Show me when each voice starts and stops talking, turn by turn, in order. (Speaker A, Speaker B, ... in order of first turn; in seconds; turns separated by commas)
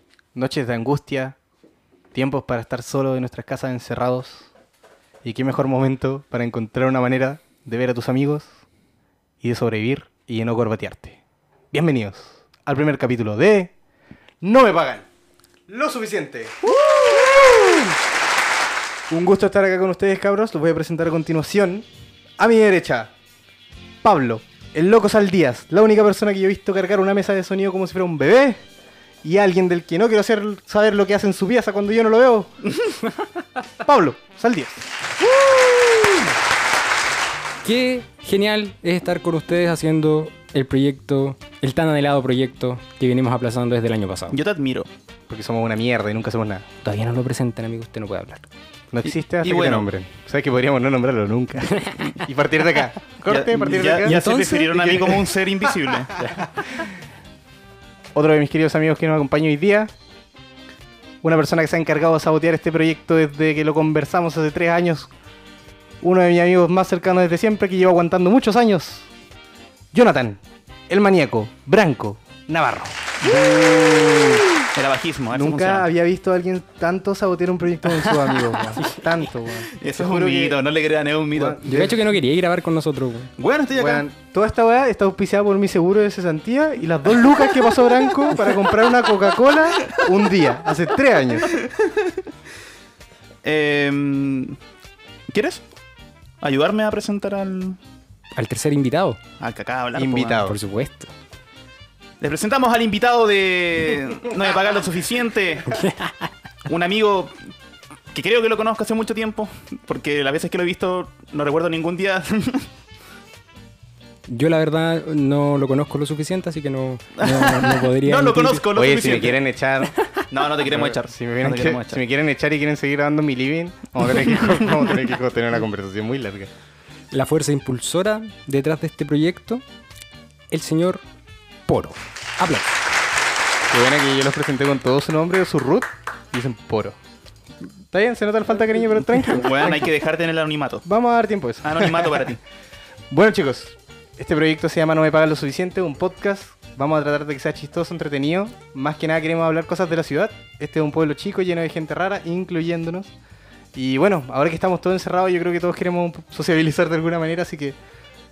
Speaker A: 0.3-1.4, Speaker A: 2.1-4.5, Speaker A: 5.2-8.5, Speaker A: 9.4-11.2, Speaker A: 11.7-13.7, Speaker A: 14.4-15.1, Speaker A: 15.7-17.9, Speaker A: 19.1-21.8, Speaker A: 22.4-23.1, Speaker A: 24.0-28.6, Speaker A: 29.2-32.5, Speaker A: 33.8-34.8, Speaker B: 37.6-44.4, Speaker C: 44.3-44.9, Speaker A: 45.3-46.6, Speaker B: 46.8-48.5, Speaker A: 48.9-56.8, Speaker C: 49.4-49.9, Speaker B: 51.7-52.2, Speaker C: 53.2-56.1, Speaker B: 54.0-55.1, Speaker A: 58.1-59.9, Speaker A: 61.2-65.1, Speaker A: 66.0-69.1, Speaker A: 69.9-73.0, Speaker C: 73.2-75.9, Speaker A: 73.7-74.5, Speaker A: 75.3-80.6, Speaker C: 79.7-81.6, Speaker A: 81.3-82.0, Speaker B: 81.7-83.3, Speaker C: 83.4-84.0, Speaker A: 83.8-91.6, Speaker C: 91.5-92.2, Speaker C: 93.4-94.6, Speaker C: 95.3-95.6, Speaker C: 96.4-97.8, Speaker B: 98.3-99.2, Speaker C: 99.4-100.4, Speaker A: 100.0-100.5, Speaker B: 100.3-101.1, Speaker C: 102.2-105.8, Speaker B: 105.7-106.1, Speaker C: 106.6-107.3, Speaker C: 108.1-112.7, Speaker B: 114.3-118.6, Speaker C: 117.2-119.4, Speaker A: 118.7-119.9, Speaker C: 120.3-122.0, Speaker A: 120.7-126.5, Speaker B: 127.1-129.6, Speaker B: 130.5-131.0, Speaker B: 131.7-132.7, Speaker A: 133.7-136.9, Speaker A: 137.9-139.9, Speaker C: 139.3-140.8, Speaker A: 140.8-142.3, Speaker C: 141.6-142.4, Speaker A: 143.1-153.1, Speaker A: 153.7-157.8